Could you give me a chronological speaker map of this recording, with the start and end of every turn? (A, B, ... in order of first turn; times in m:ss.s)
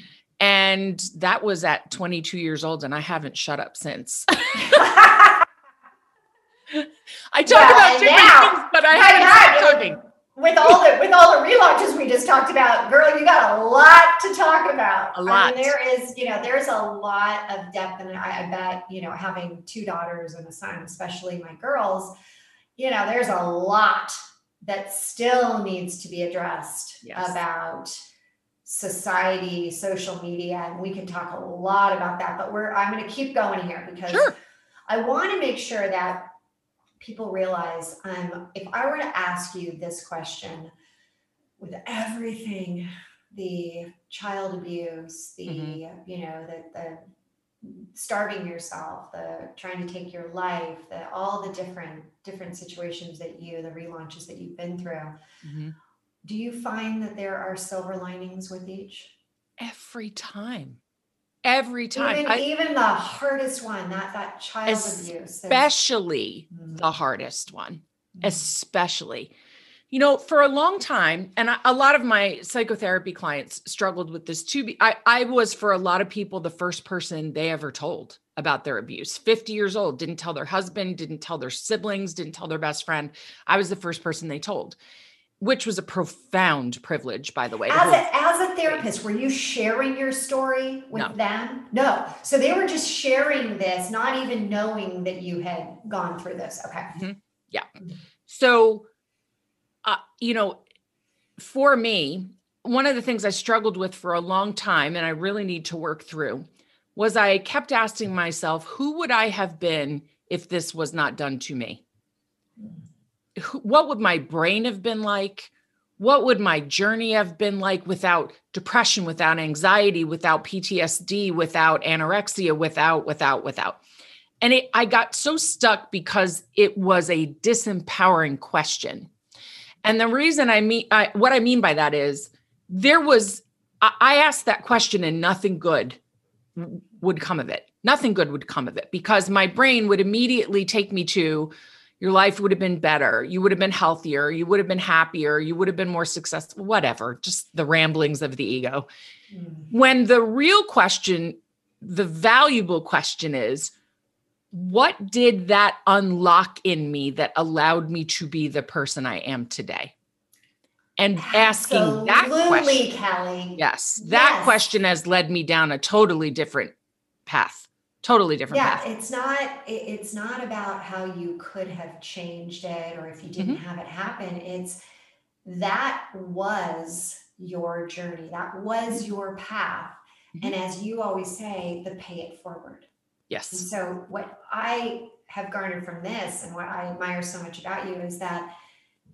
0:00.4-0:04.9 A
0:04.6-0:05.4 B
0:06.7-0:10.0 A
0:07.5-0:22.1 B
0:15.1-0:15.7 A
0:22.8-0:27.9 B
0:27.0-0:27.4 A
0:28.6-0:34.3 B
0:34.9-0:36.3 B
0:37.0-0:40.7 B
0:41.6-0:47.0 B
0:45.5-0:45.8 A
0:47.6-0:55.2 B
0:55.4-0:55.7 A
0:56.2-0:59.1 B
0:59.6-1:00.8 A
1:01.4-1:02.4 A
1:02.0-1:05.7 B
1:04.7-1:09.3 A
1:06.5-1:06.8 B
1:09.9-1:24.8 A
1:25.4-1:28.0 A
1:27.7-1:37.0 B
1:37.0-1:37.7 A
1:38.3-1:38.9 A
1:39.8-1:40.6 A
1:41.4-1:51.8 A
1:53.4-2:03.8 A
2:04.4-2:09.1 A
2:09.8-2:16.0 A
2:16.6-2:28.9 A
2:29.3-2:29.7 B
2:29.7-2:33.7 A
2:34.5-2:39.9 A
2:41.0-2:42.8 A
2:41.2-2:44.6 B
2:43.6-2:46.7 A
2:47.3-2:48.8 A
2:48.5-2:54.8 B
2:55.4-3:02.9 B
3:03.3-3:03.6 A
3:03.5-3:08.5 B